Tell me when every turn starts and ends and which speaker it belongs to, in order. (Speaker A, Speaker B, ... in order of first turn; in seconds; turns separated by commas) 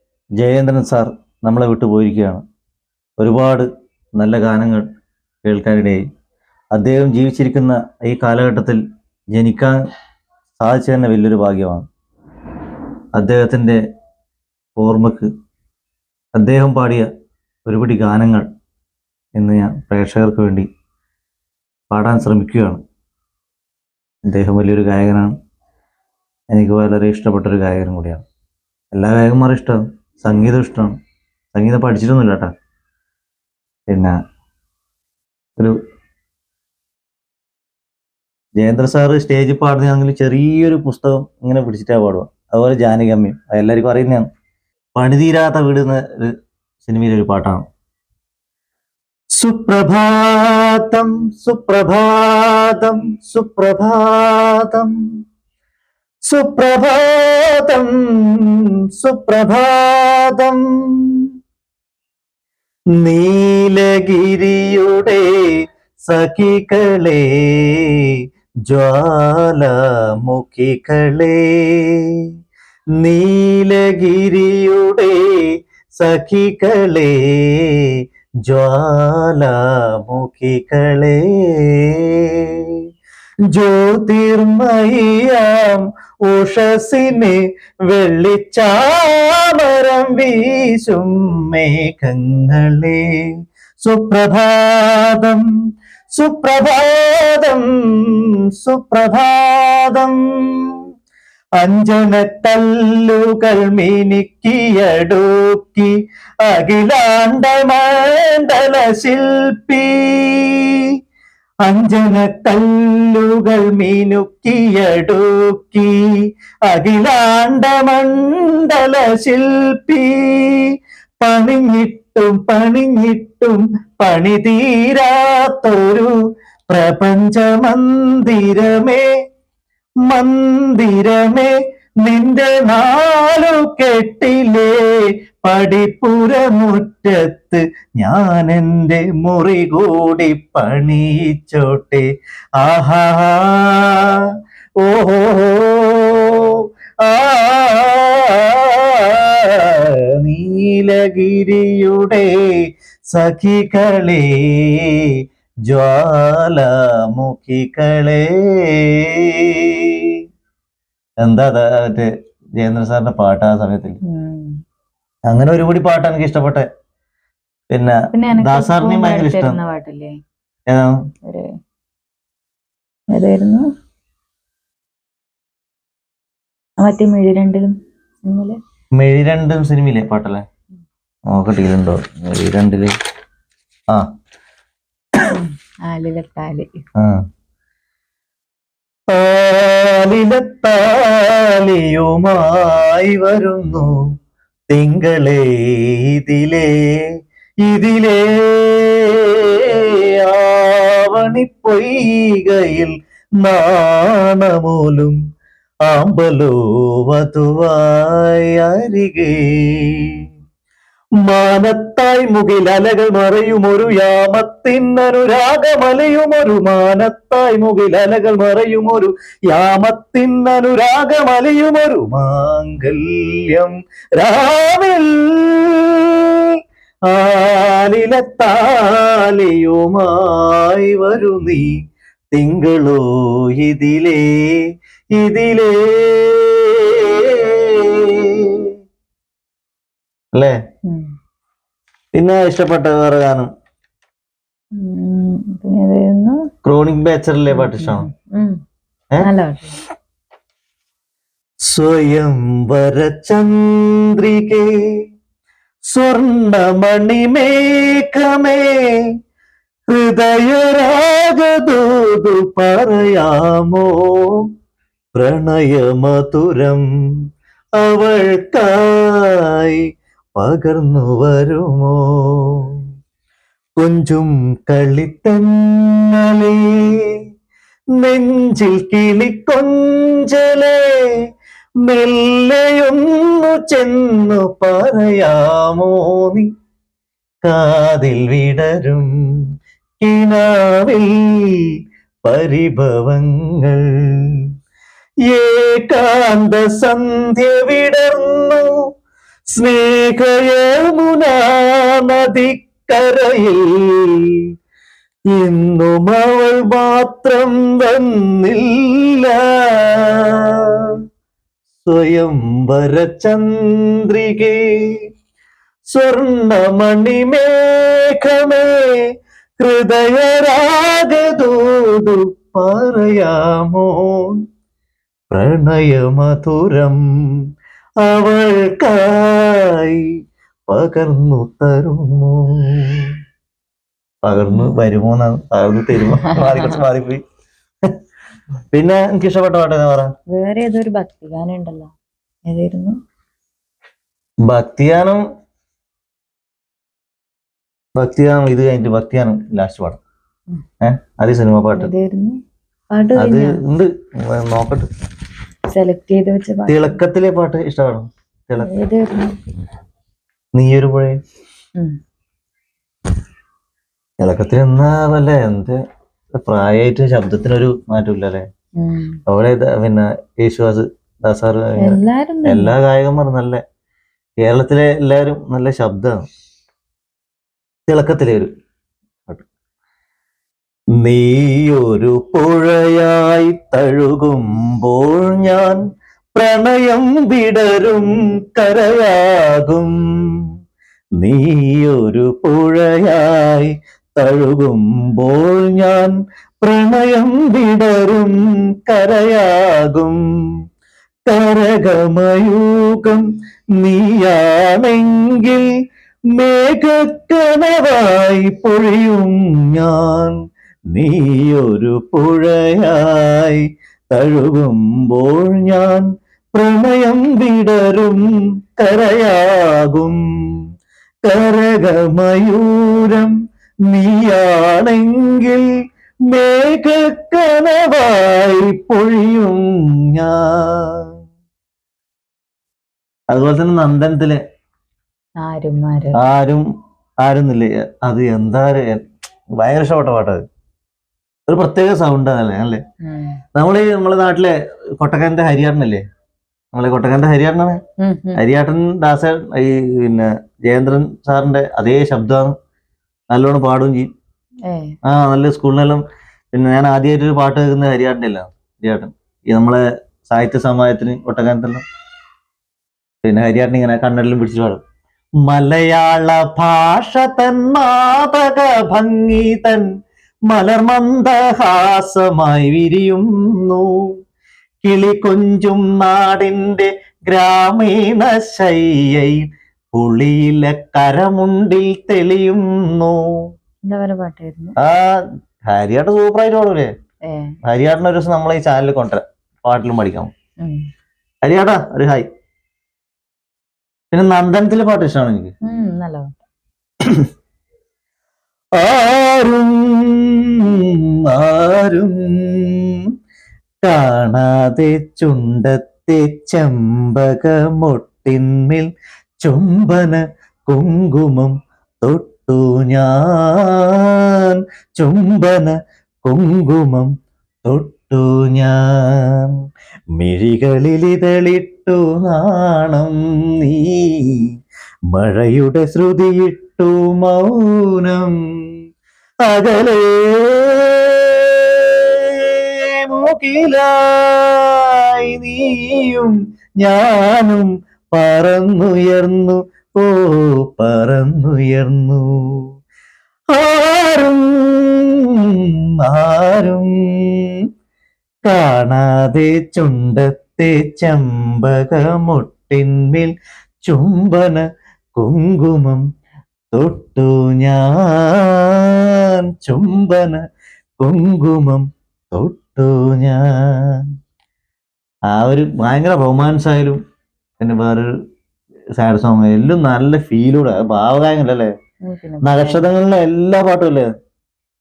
Speaker A: 0.4-2.4, Speaker A: 3.2-3.7, Speaker A: 4.2-4.9, Speaker A: 5.4-6.0, Speaker A: 6.7-8.8, Speaker A: 9.3-9.8, Speaker A: 10.6-11.8, Speaker A: 13.2-13.8, Speaker A: 14.8-15.3, Speaker A: 16.3-17.1, Speaker A: 17.6-18.5, Speaker A: 19.4-20.7, Speaker A: 21.9-22.8, Speaker A: 24.3-25.3, Speaker A: 26.5-28.2, Speaker A: 28.9-30.9, Speaker A: 31.5-32.5, Speaker A: 33.9-34.2, Speaker A: 38.6-44.3, Speaker A: 45.0-46.3, Speaker A: 46.8-47.6, Speaker A: 49.4-55.0, Speaker A: 56.3-61.2, Speaker A: 63.0-68.1, Speaker A: 68.7-72.2, Speaker A: 73.0-77.9, Speaker A: 78.5-82.7, Speaker A: 83.5-93.0, Speaker A: 93.8-95.4, Speaker A: 96.1-100.7, Speaker A: 101.6-105.9, Speaker A: 106.5-110.9, Speaker A: 111.7-116.0, Speaker A: 116.7-120.7, Speaker A: 121.2-126.1, Speaker A: 126.7-129.1, Speaker A: 130.1-142.1, Speaker A: 142.6-144.2, Speaker A: 144.8-152.6, Speaker A: 153.1-155.1, Speaker A: 155.7-160.2, Speaker A: 161.2-164.0, Speaker B: 164.1-164.5, Speaker A: 165.3-166.7, Speaker A: 167.7-169.6, Speaker B: 168.1-170.1, Speaker B: 173.1-173.6, Speaker B: 176.8-177.7, Speaker B: 178.3-178.6, Speaker A: 179.0-180.4, Speaker A: 181.3-182.9, Speaker B: 185.3-186.7, Speaker A: 189.1-194.0, Speaker A: 194.7-197.1, Speaker A: 197.7-205.2, Speaker A: 205.9-210.2, Speaker A: 211.2-226.5, Speaker A: 227.1-231.7, Speaker A: 232.3-234.6, Speaker A: 235.2-238.7, Speaker A: 242.1-243.5, Speaker B: 244.8-246.4, Speaker A: 246.6-248.1, Speaker B: 247.5-248.6, Speaker B: 249.2-249.8, Speaker A: 251.7-254.7, Speaker A: 255.9-258.8, Speaker A: 259.9-264.5, Speaker A: 265.1-266.8, Speaker A: 267.8-269.8, Speaker A: 270.4-272.8, Speaker A: 273.8-277.2, Speaker A: 278.0-281.1, Speaker A: 281.9-286.5, Speaker A: 287.4-289.1, Speaker A: 290.0-294.4, Speaker A: 295.3-298.8, Speaker A: 299.5-304.4, Speaker A: 305.3-310.9, Speaker A: 311.8-315.0, Speaker A: 315.9-319.0, Speaker A: 319.6-324.4, Speaker A: 325.3-327.0, Speaker A: 328.0-330.1, Speaker A: 330.7-333.1, Speaker A: 334.2-337.2, Speaker B: 336.2-336.7, Speaker A: 338.7-340.1, Speaker B: 340.3-341.9, Speaker B: 342.5-342.9, Speaker A: 344.5-345.2, Speaker A: 348.0-350.0, Speaker A: 350.8-351.9, Speaker B: 351.8-352.4, Speaker B: 352.9-353.5, Speaker A: 353.1-354.9, Speaker B: 355.7-356.9, Speaker A: 356.7-358.7, Speaker B: 358.7-359.3, Speaker A: 360.6-361.2, Speaker A: 364.2-365.8, Speaker A: 366.4-368.4, Speaker B: 368.8-369.2, Speaker A: 369.3-373.6, Speaker B: 371.8-372.7, Speaker A: 374.4-376.2, Speaker A: 377.9-378.5, Speaker A: 381.0-385.8, Speaker A: 386.3-390.0, Speaker A: 391.2-400.2, Speaker A: 401.3-403.2, Speaker A: 403.8-405.7, Speaker A: 406.4-410.4, Speaker A: 410.9-420.2, Speaker A: 421.2-423.3, Speaker A: 423.9-425.6, Speaker A: 426.3-431.1, Speaker A: 433.3-434.4, Speaker B: 435.4-436.2, Speaker A: 436.1-436.6, Speaker A: 437.2-439.0, Speaker A: 439.6-440.4, Speaker A: 441.5-442.8, Speaker B: 443.0-443.4, Speaker A: 443.5-446.0, Speaker A: 446.7-447.8, Speaker B: 448.0-448.4, Speaker A: 448.4-452.5, Speaker A: 453.3-454.1, Speaker B: 454.7-454.9, Speaker A: 455.0-456.0, Speaker A: 456.5-461.8, Speaker A: 463.2-464.8, Speaker A: 465.4-469.9, Speaker A: 470.5-473.9, Speaker A: 474.8-483.2, Speaker B: 483.9-484.8, Speaker A: 484.8-485.2, Speaker A: 485.7-486.9, Speaker A: 487.6-490.3, Speaker A: 491.4-492.3, Speaker A: 494.1-495.5, Speaker B: 495.6-496.4, Speaker A: 497.0-497.3, Speaker A: 498.8-503.0, Speaker A: 503.8-508.9, Speaker A: 509.4-517.1, Speaker A: 517.6-519.5, Speaker A: 520.1-524.4, Speaker A: 525.1-528.4, Speaker A: 529.5-542.6, Speaker A: 543.5-547.5, Speaker A: 548.5-553.3, Speaker A: 553.9-554.6, Speaker A: 555.1-556.0, Speaker A: 556.7-560.4, Speaker A: 561.0-564.0, Speaker A: 565.3-567.0, Speaker A: 567.6-568.1, Speaker A: 569.0-571.7, Speaker B: 572.0-572.8, Speaker A: 572.4-574.1